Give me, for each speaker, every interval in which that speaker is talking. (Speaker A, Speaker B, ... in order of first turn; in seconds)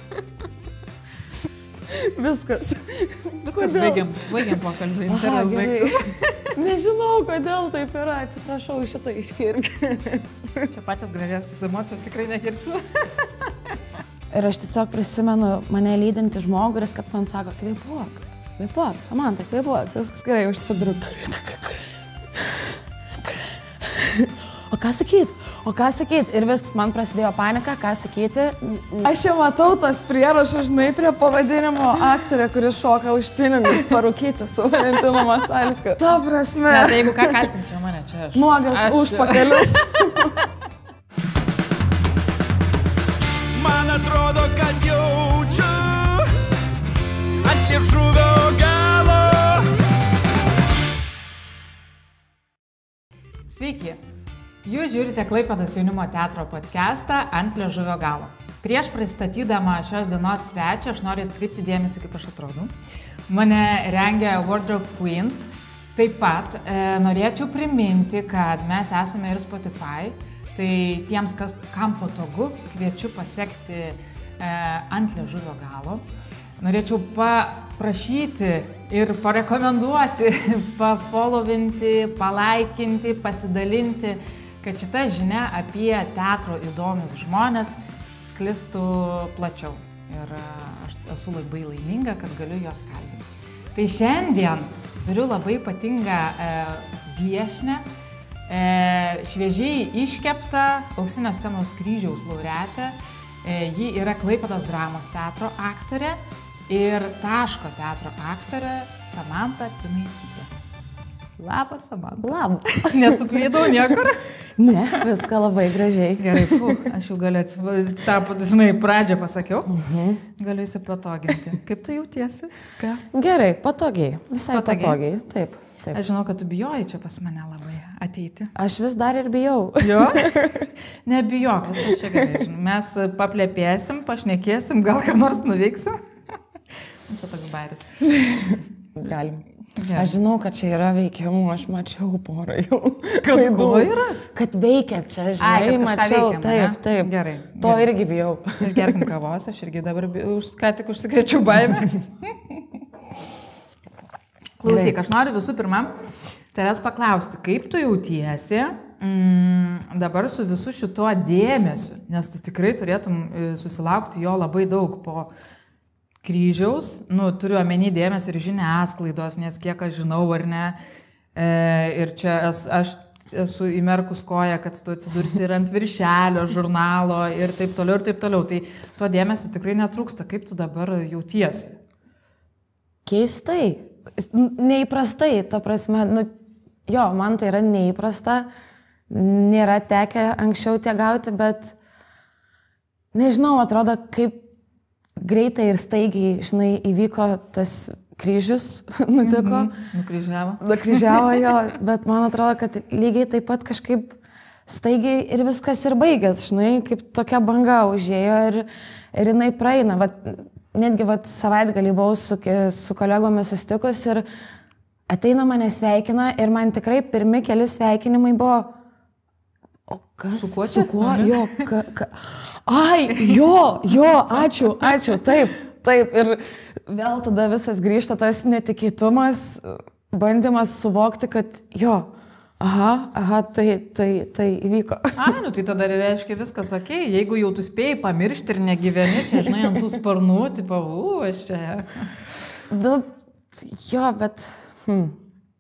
Speaker A: 1.9-4.6, 5.1-10.7, 14.3-37.5, 38.4-40.4, 112.2-113.8, 114.6-116.9, 119.7-120.2, 123.1-126.0, 128.6-130.7, 138.1-149.0, 154.7-154.9, 183.1-186.3, 186.9-188.5, 189.1-191.8, 193.1-194.4, 195.2-199.7, 200.6-214.3, 215.1-218.7, 219.9-235.3, 242.7-245.2
Speaker B: 3.5-6.4, 10.7-13.7, 36.7-39.8, 53.5-54.0, 54.6-62.7, 63.3-76.1, 76.6-97.9, 98.5-110.5, 111.4-114.2, 116.2-119.7, 120.4-123.0, 124.5-125.0, 125.9-128.5, 129.8-130.5, 131.1-136.0, 137.0-138.1, 139.8-140.2, 143.2-144.2, 145.4-147.9, 148.6-152.8, 154.6-156.0, 156.5-165.3, 166.2-170.8, 171.3-181.8, 199.2-201.6, 220.4-221.4, 235.2-242.1
Speaker C: 43.5-46.3, 47.4-49.7